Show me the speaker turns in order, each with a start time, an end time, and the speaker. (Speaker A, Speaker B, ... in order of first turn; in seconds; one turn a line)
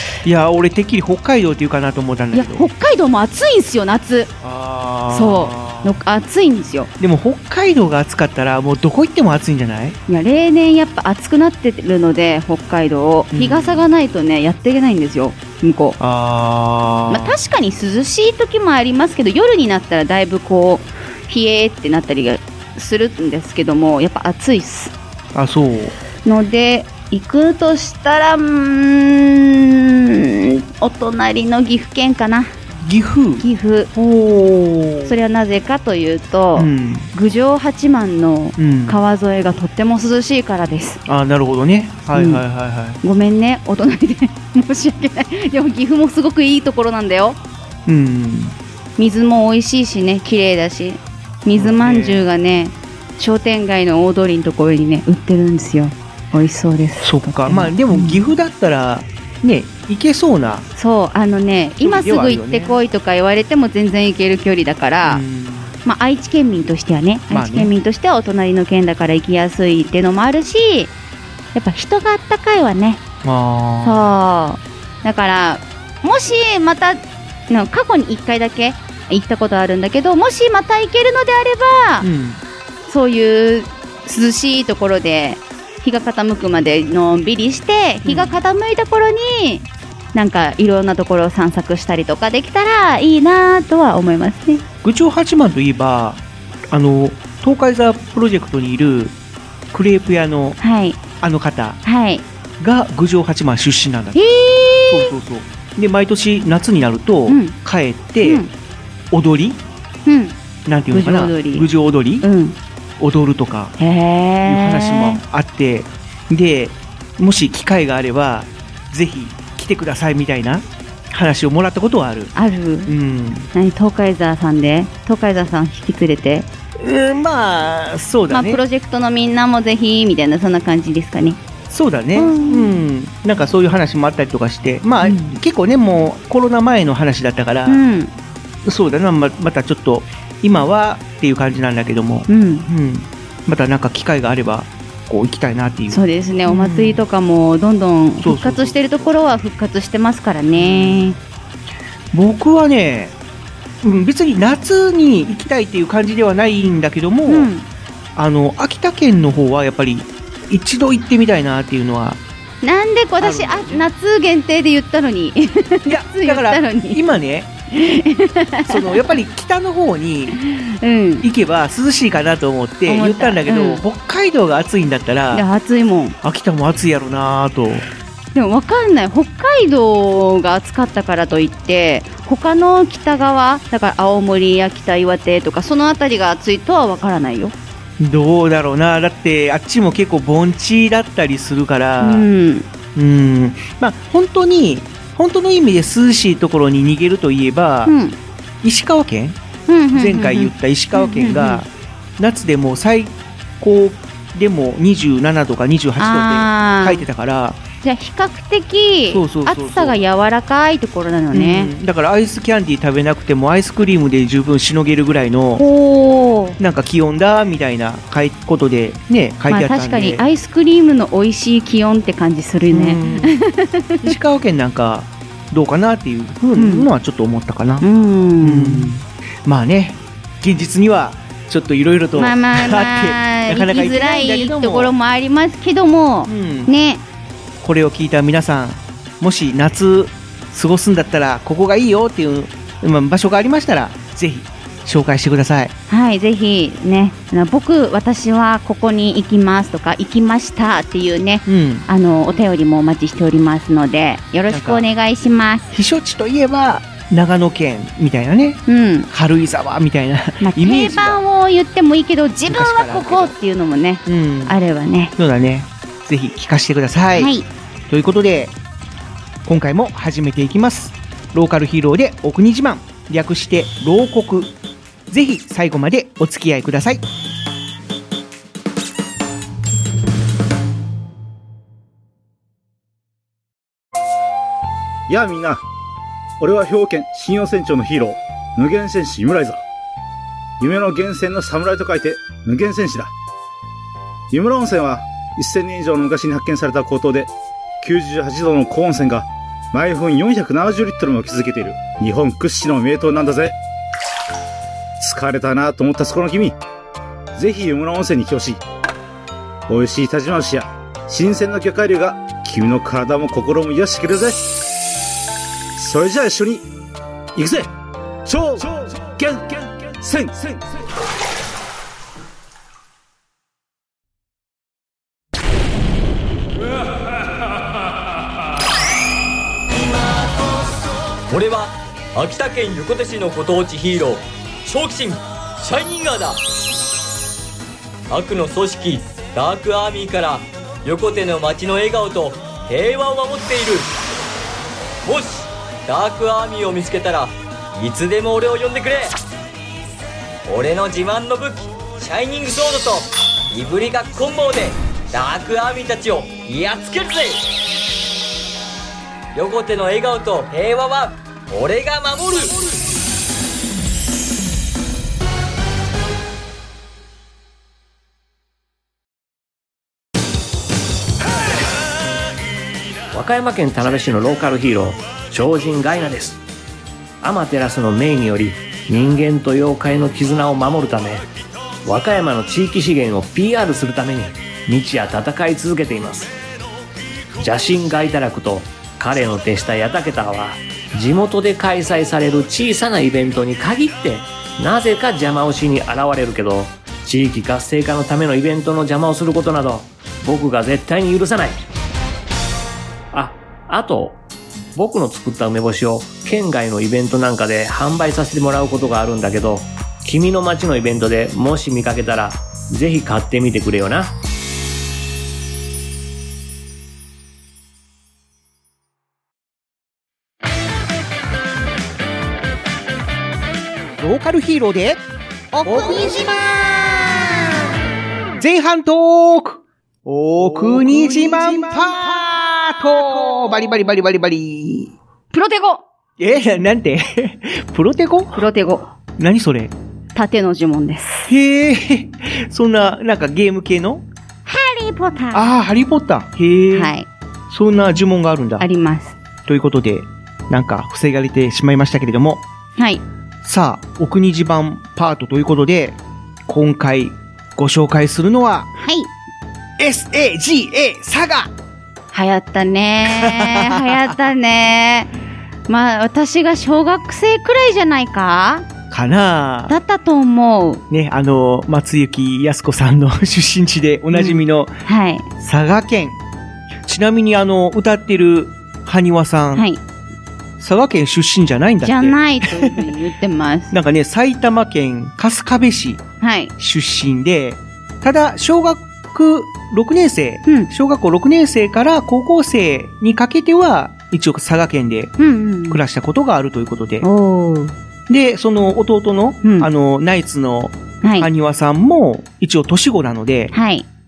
Speaker A: 0.2-2.7
Speaker B: 2.3-4.3
Speaker A: 4.4-6.0
Speaker B: 5.1-6.9
Speaker A: 7.0-10.0
Speaker B: 10.1-16.0
Speaker A: 13.3-13.9
Speaker A: 16.0-17.4
Speaker B: 17.1-24.9
Speaker A: 25.3-25.9
Speaker B: 26.2-32.5
Speaker A: 32.8-35.2
Speaker B: 33.4-33.9
Speaker B: 35.1-41.0
Speaker A: 36.5-37.1
Speaker A: 38.6-39.0
Speaker A: 41.0-43.0
Speaker B: 42.1-42.4
Speaker B: 43.0-47.4
Speaker A: 47.9-48.6
Speaker B: 49.0-58.3
Speaker A: 51.5-52.3
Speaker A: 57.0-60.7
Speaker B: 60.8-65.2
Speaker A: 61.8-62.8
Speaker A: 65.0-65.7
Speaker B: 65.8-70.9
Speaker A: 67.3-67.7
Speaker B: 71.5-73.0
Speaker A: 73.2-74.1
Speaker B: 73.8-82.1
Speaker A: 82.0-82.4
Speaker B: 82.9-94.6
Speaker A: 88.0-88.4
Speaker A: 94.8-99.2
Speaker A: 99.7-100.6
Speaker B: 100.6-101.0
Speaker A: 101.2-101.8
Speaker B: 101.8-102.3
Speaker A: 102.6-104.3
Speaker B: 104.2-105.1
Speaker A: 104.9-108.5
Speaker B: 107.3-107.5
Speaker B: 108.2-108.5
Speaker A: 109.1-109.6
Speaker B: 110.1-110.4
Speaker A: 110.7-112.3
Speaker B: 110.9-111.7
Speaker B: 112.2-112.6
Speaker A: 113.0-113.7
Speaker B: 113.8-115.2
Speaker A: 114.4-122.3
Speaker B: 122.3-122.9
Speaker A: 122.9-123.5
Speaker B: 123.5-126.5
Speaker A: 126.8-128.6
Speaker B: 128.3-131.4
Speaker A: 131.7-137.8
Speaker B: 132.2-132.8
Speaker B: 135.0-135.4
Speaker B: 137.7-138.1
Speaker A: 138.6-147.1
Speaker B: 142.3-142.7
Speaker B: 145.9-151.2
Speaker A: 148.2-149.1
Speaker A: 150.6-151.2
Speaker A: 152.1-153.2
Speaker A: 153.8-157.5
Speaker B: 157.3-157.7
Speaker A: 158.2-162.2
Speaker B: 162.6-167.0
Speaker A: 163.2-163.9
Speaker A: 165.9-167.5
Speaker B: 167.7-169.1
Speaker A: 168.7-170.4
Speaker B: 170.4-171.3
Speaker A: 171.2-175.5
Speaker B: 172.9-173.8
Speaker B: 175.3-176.2
Speaker A: 176.2-177.9
Speaker B: 178.3-187.5
Speaker A: 188.0-192.3
Speaker B: 192.0-192.7
Speaker A: 192.9-197.9
Speaker B: 197.9-198.2
Speaker A: 198.6-199.4
Speaker B: 199.7-201.6
Speaker A: 199.9-207.6
Speaker B: 206.0-207.1
Speaker B: 207.8-211.7
Speaker A: 209.1-210.1
Speaker A: 211.3-215.6
Speaker B: 215.6-216.6
Speaker A: 216.6-220.2
Speaker B: 219.5-224.2
Speaker A: 222.7-223.3
Speaker A: 224.0-227.9
Speaker B: 226.6-226.9
Speaker B: 227.8-228.9
Speaker A: 228.4-234.9
Speaker B: 232.2-237.0
Speaker A: 236.3-236.7
Speaker A: 237.6-245.7
Speaker B: 245.9-255.7
Speaker A: 251.5-251.9
Speaker A: 254.5-254.9
Speaker A: 255.7-261.2
Speaker B: 258.7-259.1
Speaker B: 260.4-265.1
Speaker A: 262.5-263.4
Speaker A: 264.1-264.6
Speaker A: 265.2-267.4
Speaker B: 267.2-267.5
Speaker A: 267.9-268.6
Speaker A: 269.4-274.5
Speaker A: 275.1-277.1
Speaker C: 285.1-285.6
Speaker C: 286.4-289.6
Speaker C: 290.6-293.1
Speaker C: 294.3-303.6
Speaker C: 305.0-306.6
Speaker C: 307.4-308.6
Speaker C: 309.7-314.4
Speaker C: 315.8-316.7
Speaker C: 317.4-317.7
Speaker C: 318.3-320.7
Speaker D: 331.3-336.4
Speaker D: 338.1-343.9
Speaker D: 345.0-349.1
Speaker D: 350.5-357.4
Speaker D: 359.4-362.6
Speaker E: 373.1-376.4
Speaker E: 377.2-381.3
Speaker E: 381.9-386.3
Speaker E: 387.4-401.6
Speaker E: 403.1-404.2
Speaker E: 404.8-414.1
Speaker A: 424.0-425.0
Speaker A: 425.6-427.4
Speaker A: 428.4-434.9
Speaker B: 435.3-435.8
Speaker A: 436.2-438.4
Speaker B: 438.4-438.9
Speaker A: 439.2-439.7
Speaker B: 440.1-441.3
Speaker A: 441.3-444.1
Speaker B: 444.5-445.5
Speaker A: 445.3-446.9
Speaker B: 446.7-447.1
Speaker A: 447.5-448.7
Speaker B: 448.6-449.2
Speaker A: 449.5-452.4
Speaker B: 452.8-453.0
Speaker A: 453.4-458.7
Speaker B: 458.8-459.1
Speaker A: 459.8-461.5
Speaker B: 462.1-465.1
Speaker A: 463.1-464.1
Speaker B: 465.7-468.7
Speaker A: 468.9-469.8
Speaker B: 469.7-470.8
Speaker A: 470.9-474.7
Speaker B: 474.1-475.3
Speaker A: 475.4-476.2
Speaker A: 476.9-479.7
Speaker B: 479.6-479.8
Speaker A: 480.6-482.9
Speaker B: 481.8-483.7
Speaker A: 483.7-486.0
Speaker B: 486.2-486.5
Speaker A: 486.6-495.1
Speaker B: 495.2-495.8
Speaker A: 495.7-497.1
Speaker B: 497.0-497.8
Speaker A: 498.1-503.5
Speaker B: 499.4-499.7
Speaker B: 501.0-501.3
Speaker B: 503.5-503.9